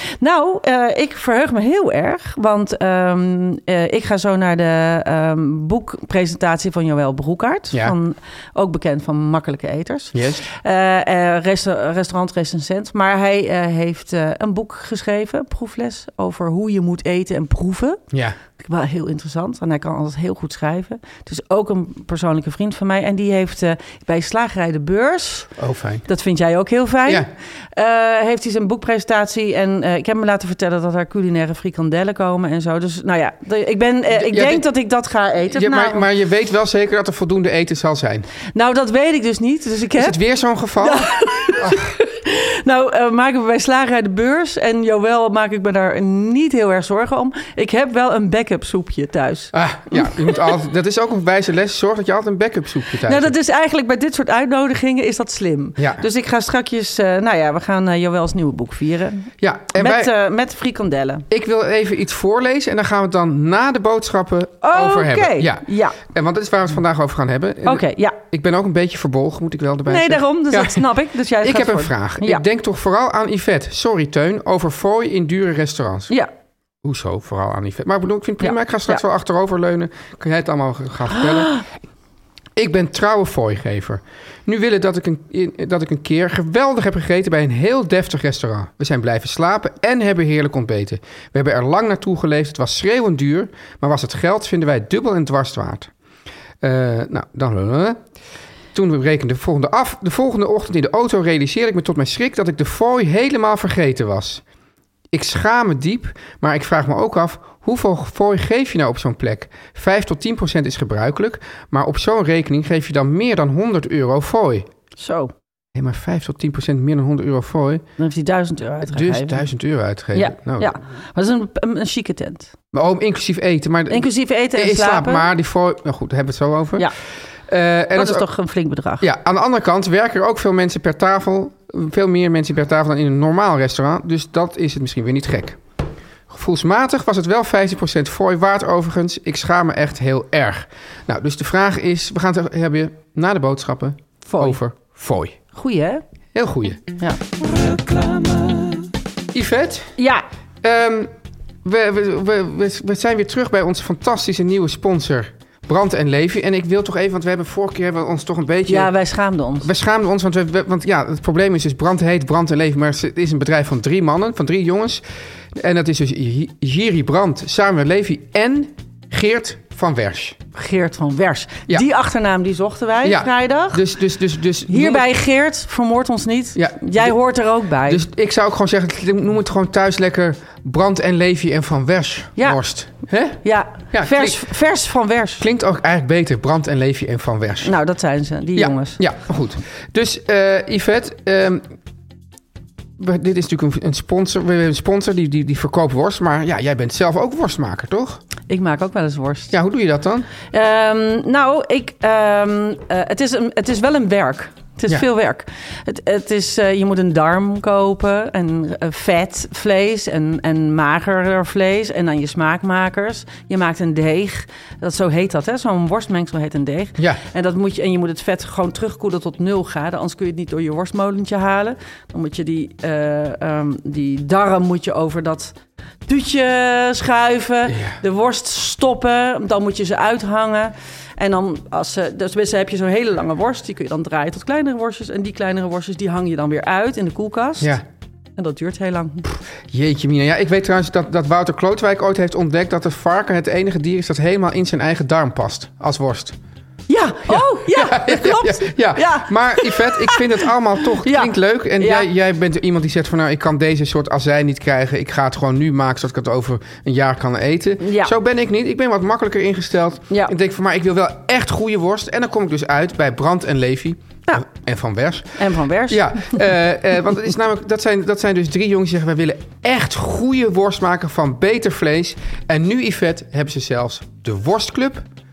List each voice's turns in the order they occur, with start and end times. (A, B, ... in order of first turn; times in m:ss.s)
0:00.2-0:18.0 A
0:10.1-0:10.4 B
0:18.1-0:18.4 B
0:18.6-0:25.5 A
0:25.6-0:26.0 B
0:26.1-0:36.0 A
0:34.1-0:34.7 B
0:35.5-0:38.3 B
0:38.5-0:40.2 A
0:40.0-0:41.9 B
0:40.8-0:50.4 A
0:49.5-0:53.3 B
0:53.1-1:01.2 A
0:55.8-0:56.0 B
0:59.4-1:00.1 B
1:01.3-1:10.9 B
1:04.6-1:06.0 A
1:07.6-1:08.2 A
1:09.9-1:12.4 A
1:11.4-1:16.1 B
1:16.8-1:21.6 B
1:18.4-1:19.0 A
1:21.1-1:21.6 A
1:22.6-1:35.9 B
1:36.6-1:38.0 B
1:38.7-1:44.4 B
1:45.1-1:54.7 B
1:55.0-1:55.3 A
1:55.8-1:57.8 B
1:58.0-1:59.4 A
1:58.8-2:00.8 B
2:00.1-2:02.5 A
2:02.7-2:06.9 B
2:03.9-2:05.3 A
2:07.5-2:08.3 B
2:08.0-2:09.0 A
2:09.0-2:15.6 B
2:16.3-2:25.4 B
2:24.3-2:24.6 A
2:25.5-2:26.0 A
2:26.4-2:26.9 B
2:29.3-2:30.0 B
2:30.0-2:30.2 A
2:30.6-2:31.1 B
2:31.6-2:38.9 B
2:38.7-2:39.7 A
2:39.6-2:45.0 B
2:45.6-2:50.4 B
2:50.6-2:53.8 A
2:53.0-2:55.1 B
2:54.7-2:58.0 A
2:56.6-2:57.2 B
2:57.8-3:04.5 B
3:03.4-3:05.4 A
3:05.4-3:07.7 B
3:07.6-3:09.0 A
3:08.6-3:11.7 B
3:13.0-3:18.2 B
3:18.5-3:19.5 A
3:19.5-3:20.3 B
3:20.5-3:57.8 A
3:47.7-3:48.0 B
3:57.6-3:57.8 B
3:58.4-3:59.3 A
3:59.7-4:06.4 B
4:06.9-4:10.5 A
4:07.3-4:35.1 B
4:11.0-4:12.1 A
4:17.8-4:18.1 A
4:25.4-4:26.4 A